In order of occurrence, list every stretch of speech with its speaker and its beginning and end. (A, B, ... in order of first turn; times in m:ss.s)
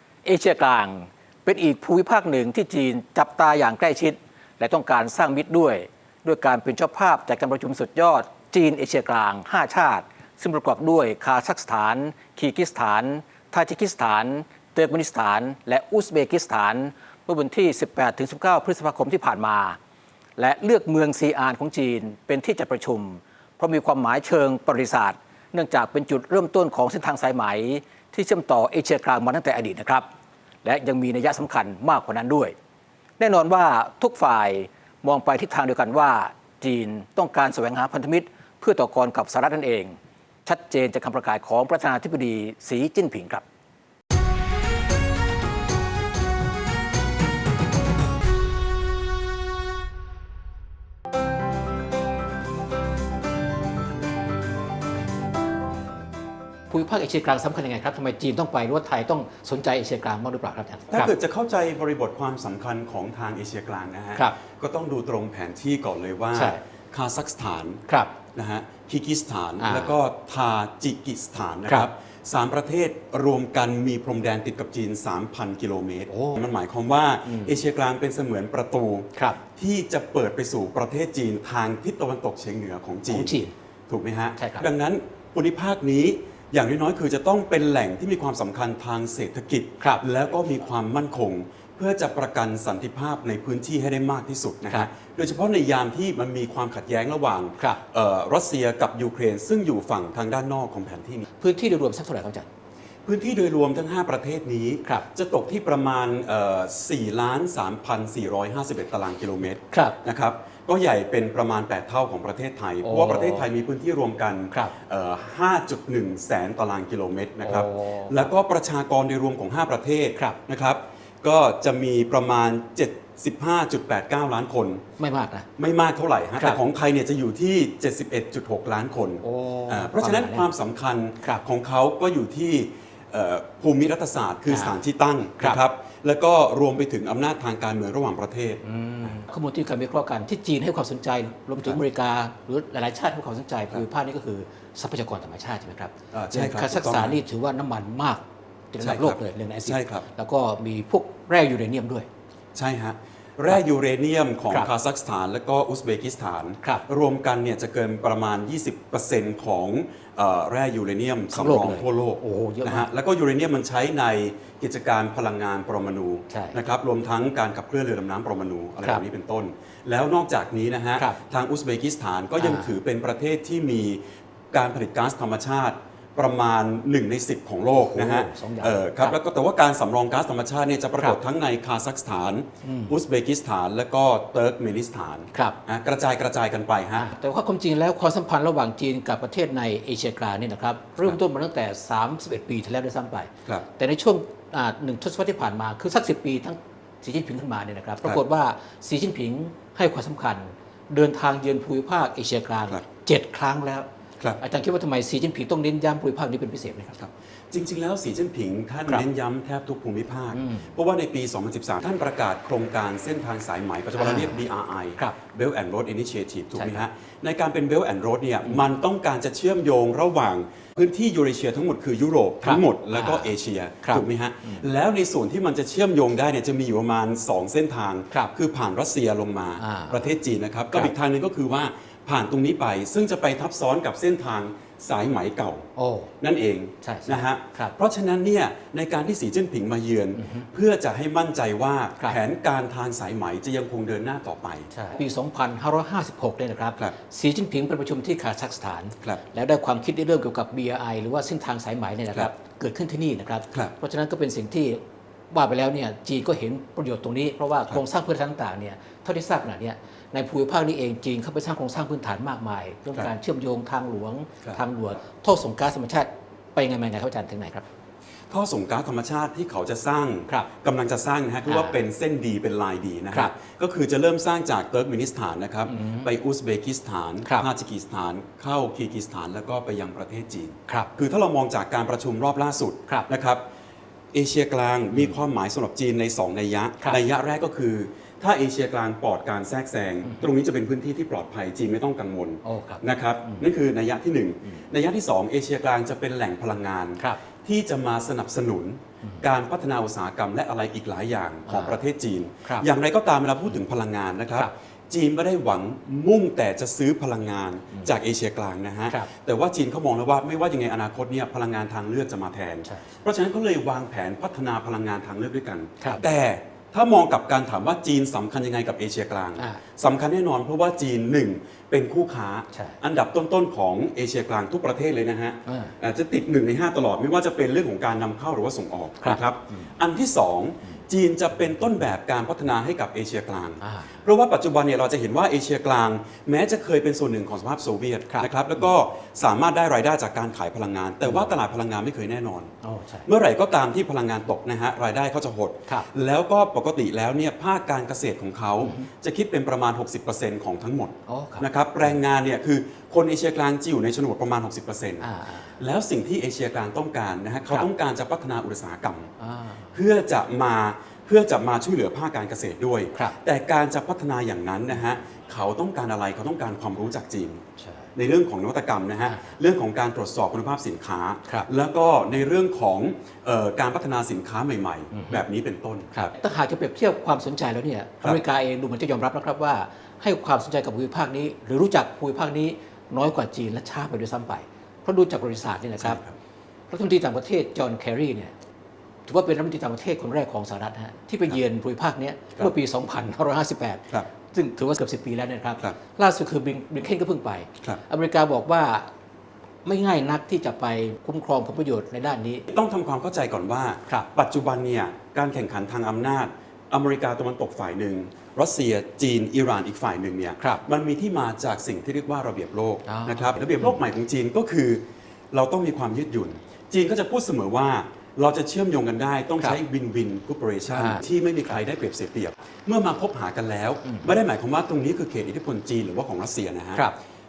0:00.2-0:19.8 A
0:20.4-0:30.1 A
0:30.6-0:32.6 A
0:33.2-0:43.4 A
0:56.7-1:01.1 A
1:00.9-1:07.8 B
1:06.3-1:06.6 A
1:07.9-1:08.1 A
1:08.4-1:41.2 B
1:09.6-1:10.0 A
1:16.1-1:16.4 A
1:17.2-1:17.6 A
1:23.1-1:23.5 A
1:24.4-1:24.7 A
1:29.8-1:30.0 A
1:41.4-1:42.5 A
1:43.1-2:04.8 B
1:49.7-1:50.0 A
1:52.8-1:53.5 A
1:54.5-1:54.8 A
1:57.4-1:58.3 A
2:05.0-2:05.5 A
2:05.6-2:19.2 B
2:09.2-2:10.5 A
2:14.5-2:14.8 A
2:18.6-2:32.1 A
2:26.1-2:27.2 B
2:28.8-2:30.1 B
2:32.5-3:07.0 B
2:41.3-2:42.9 A
2:46.3-2:46.6 A
2:52.4-2:52.7 A
2:57.7-2:59.2 A
3:02.6-3:03.0 A
3:07.0-3:23.9 A
3:24.4-3:27.0 A
3:27.0-3:55.7 B
3:30.3-3:30.7 A
3:34.0-3:34.4 A
3:36.6-3:36.9 A
3:42.4-3:44.7 A
3:49.6-3:50.1 A
3:55.8-3:56.1 A
3:56.2-4:04.7 B
3:56.8-3:57.8 A
4:00.2-4:00.5 A
4:04.7-4:27.6 A
4:28.3-4:43.4 B
4:31.4-4:31.8 A
4:35.7-4:36.1 A
4:37.2-4:37.5 A
4:44.1-5:42.5 B
4:52.4-4:53.5 A
5:01.5-5:01.8 A
5:22.5-5:22.8 A
5:25.5-5:25.8 A
5:29.0-5:29.7 A
5:33.6-5:34.0 A
5:42.6-5:43.1 A
5:43.1-5:59.1 B
5:48.6-5:48.9 A
5:51.1-5:52.0 A
5:55.0-5:55.6 A
5:59.2-5:59.7 A
5:59.7-6:07.4 B
6:07.6-6:07.9 A
6:08.0-6:16.1 B
6:09.0-6:09.4 A
6:14.9-6:15.2 A
6:15.9-6:26.0 A
6:25.8-6:26.2 B
6:26.7-6:28.3 A
6:29.1-6:38.9 A
6:39.6-6:42.5 A
6:42.5-7:06.9 B
6:50.4-6:50.6 A
6:52.8-6:53.8 A
7:00.7-7:01.0 A
7:03.8-7:04.1 A